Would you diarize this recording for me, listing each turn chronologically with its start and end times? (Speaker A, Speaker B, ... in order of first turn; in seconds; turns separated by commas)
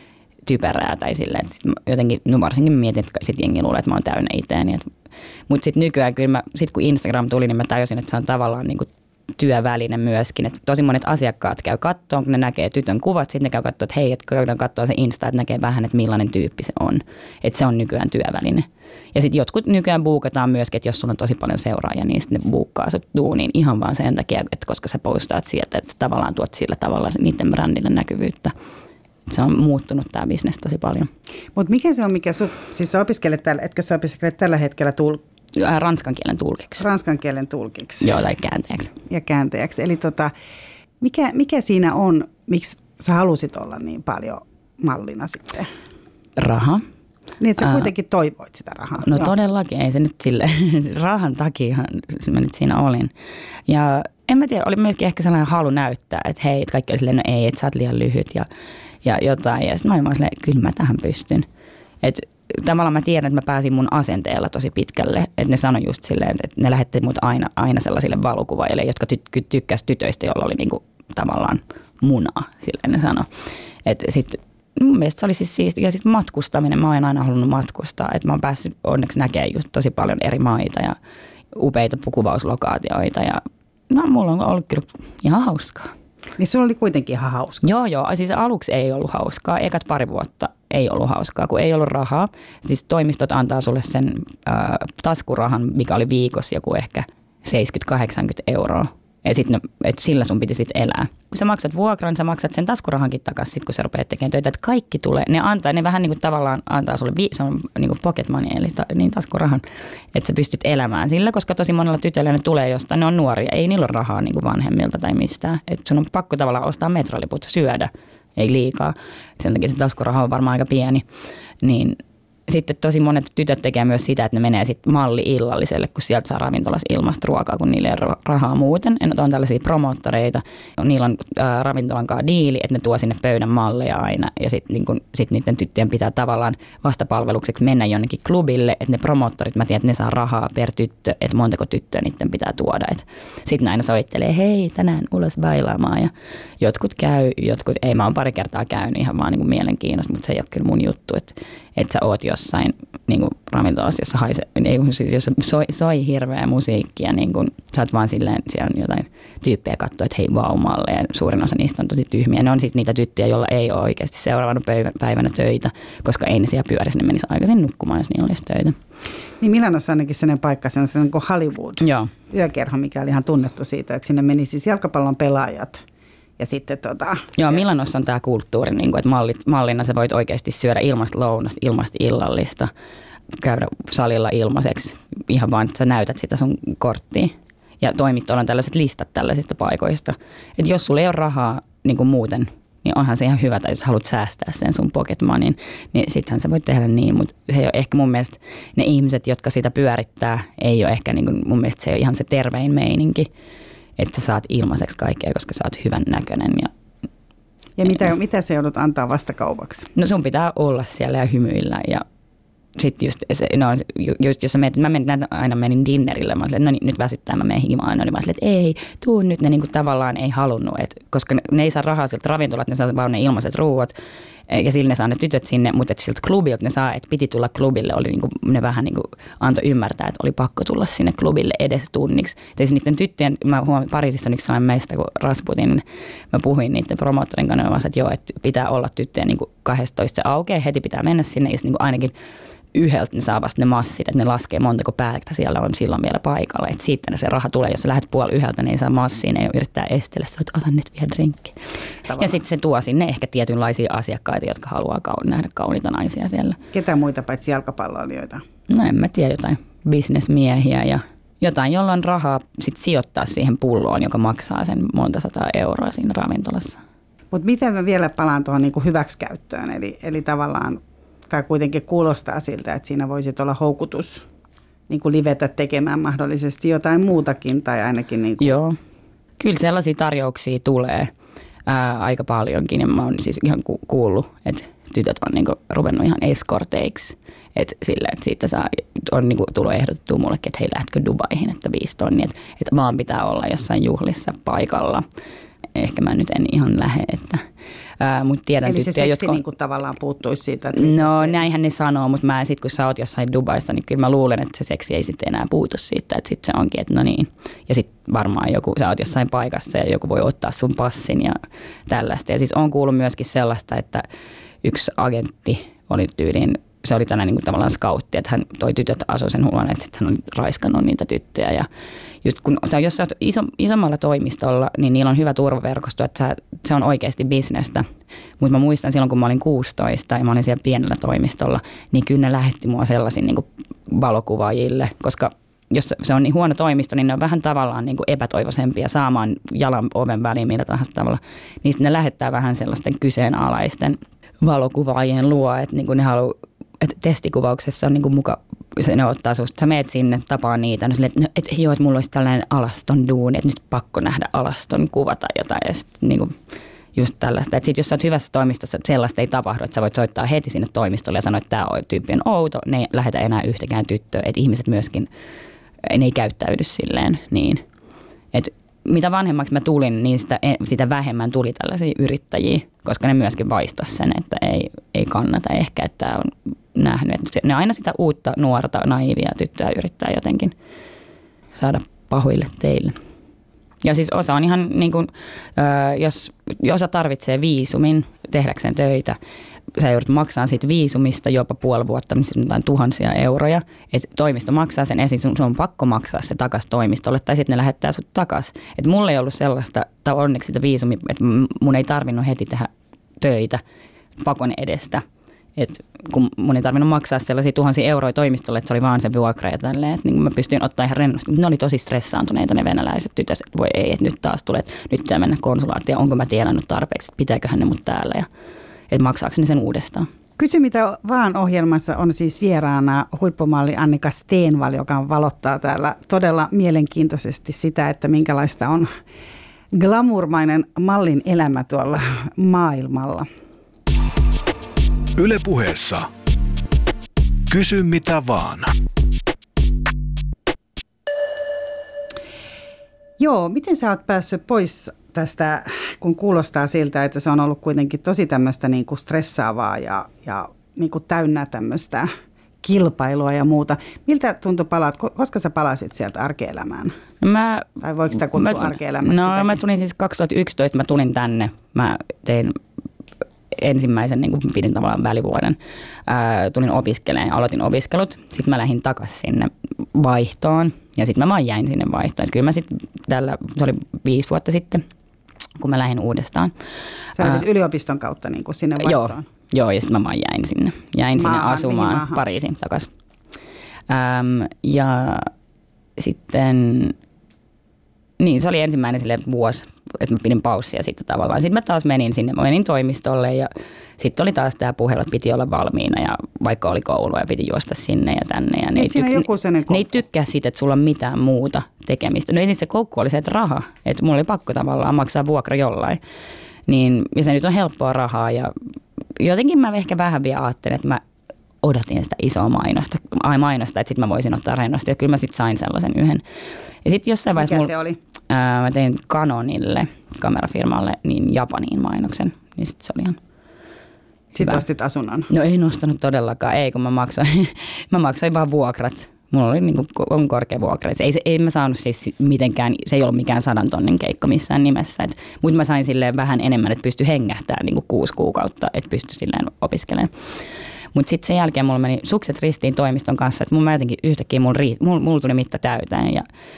Speaker A: 0.5-4.9, Speaker A: 5.5-28.5, Speaker A: 29.3-31.1, Speaker B: 31.6-35.2, Speaker A: 35.6-36.8, Speaker B: 36.8-38.2, Speaker A: 38.0-38.9, Speaker B: 39.1-40.3, Speaker B: 41.0-45.7, Speaker A: 46.4-46.8, Speaker B: 47.4-49.3, Speaker A: 47.6-47.8, Speaker A: 49.0-53.1, Speaker A: 53.7-58.5, Speaker A: 59.0-61.5, Speaker A: 62.0-73.3, Speaker A: 73.8-81.0, Speaker A: 81.5-85.9, Speaker B: 86.4-87.6, Speaker A: 87.6-121.0, Speaker A: 121.6-168.8, Speaker B: 169.4-175.8, Speaker A: 171.8-172.1, Speaker B: 176.4-177.6, Speaker A: 177.4-182.7, Speaker A: 183.4-203.3, Speaker A: 204.0-206.7, Speaker B: 207.8-209.9, Speaker A: 209.9-212.0, Speaker A: 212.8-223.9, Speaker A: 224.5-242.1, Speaker A: 242.7-251.6, Speaker A: 252.1-256.6, Speaker B: 256.7-258.4, Speaker A: 258.7-266.8, Speaker B: 267.3-274.2, Speaker B: 274.9-278.6, Speaker A: 278.4-278.8, Speaker A: 279.4-281.1, Speaker A: 281.7-295.0, Speaker A: 295.7-297.4, Speaker A: 298.0-299.4, Speaker B: 298.6-301.4, Speaker A: 300.7-314.1, Speaker A: 314.6-321.7, Speaker A: 322.2-327.9, Speaker A: 328.4-356.3, Speaker A: 356.9-365.1, Speaker A: 365.8-367.6, Speaker A: 368.3-380.5, Speaker A: 381.6-383.0, Speaker A: 383.8-389.2, Speaker A: 389.8-403.6, Speaker A: 404.2-405.0, Speaker A: 405.6-418.3, Speaker A: 418.9-420.1, Speaker B: 420.4-428.9, Speaker B: 429.7-433.3, Speaker C: 435.2-436.1, Speaker C: 437.5-438.7, Speaker B: 443.2-452.1, Speaker B: 452.6-456.9, Speaker A: 457.2-462.6, Speaker B: 457.8-459.6, Speaker A: 463.5-474.8, Speaker A: 475.6-476.5, Speaker B: 477.2-479.2, Speaker A: 478.8-482.9, Speaker B: 481.1-482.2, Speaker A: 483.9-485.3, Speaker A: 486.0-487.0, Speaker A: 488.2-506.0, Speaker B: 498.8-500.0, Speaker A: 506.7-508.5, Speaker A: 509.2-511.0, Speaker A: 511.6-516.2, Speaker A: 516.8-517.7, Speaker B: 517.4-518.0, Speaker A: 518.3-523.2, Speaker B: 524.4-525.3, Speaker A: 525.3-540.1, Speaker A: 540.9-546.3